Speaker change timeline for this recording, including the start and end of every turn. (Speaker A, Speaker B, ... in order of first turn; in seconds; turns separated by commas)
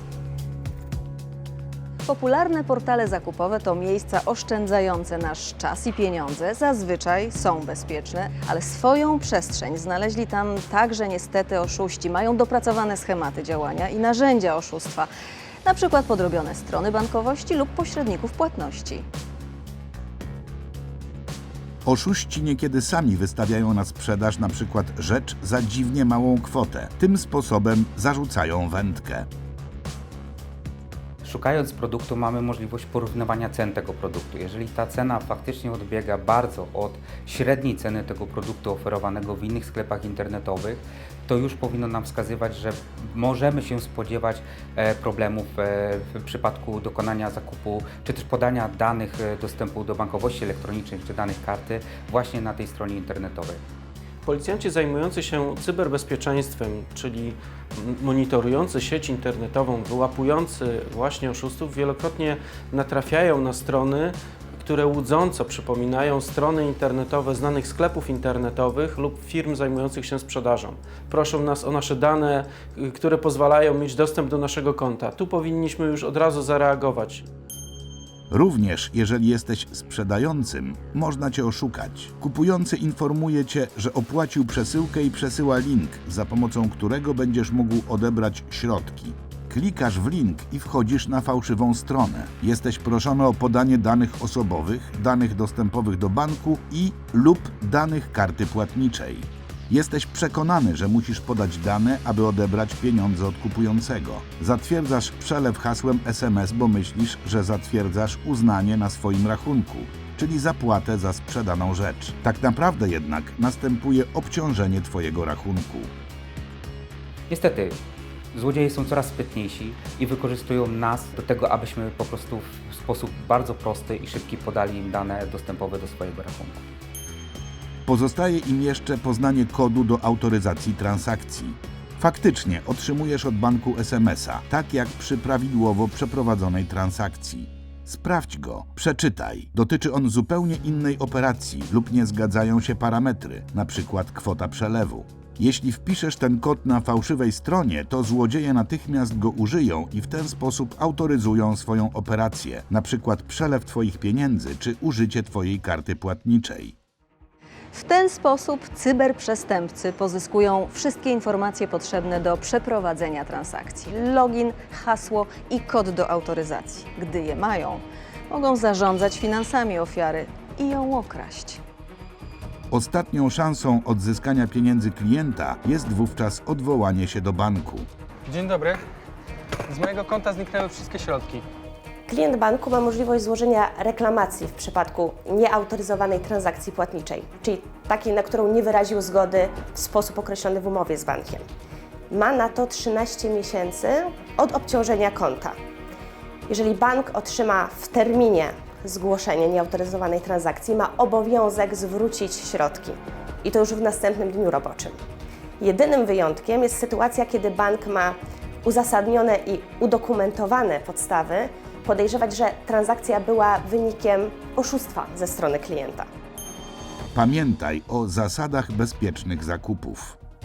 Speaker A: 2.0-15.1, Speaker A: 15.6-19.1, Speaker B: 21.9-29.3, Speaker C: 31.2-53.6, Speaker D: 54.2-77.2, Speaker B: 78.3-115.9, Speaker C: 117.3-117.8, Speaker C: 118.3-126.6, Speaker B: 127.9-156.8, Speaker A: 157.7-171.6, Speaker B: 172.7-177.9, Speaker E: 178.3-178.8, Speaker E: 179.7-181.5, Speaker F: 182.1-191.5, Speaker F: 192.1-195.6, Speaker F: 196.5-205.0, Speaker F: 205.6-216.1, Speaker B: 217.1-220.2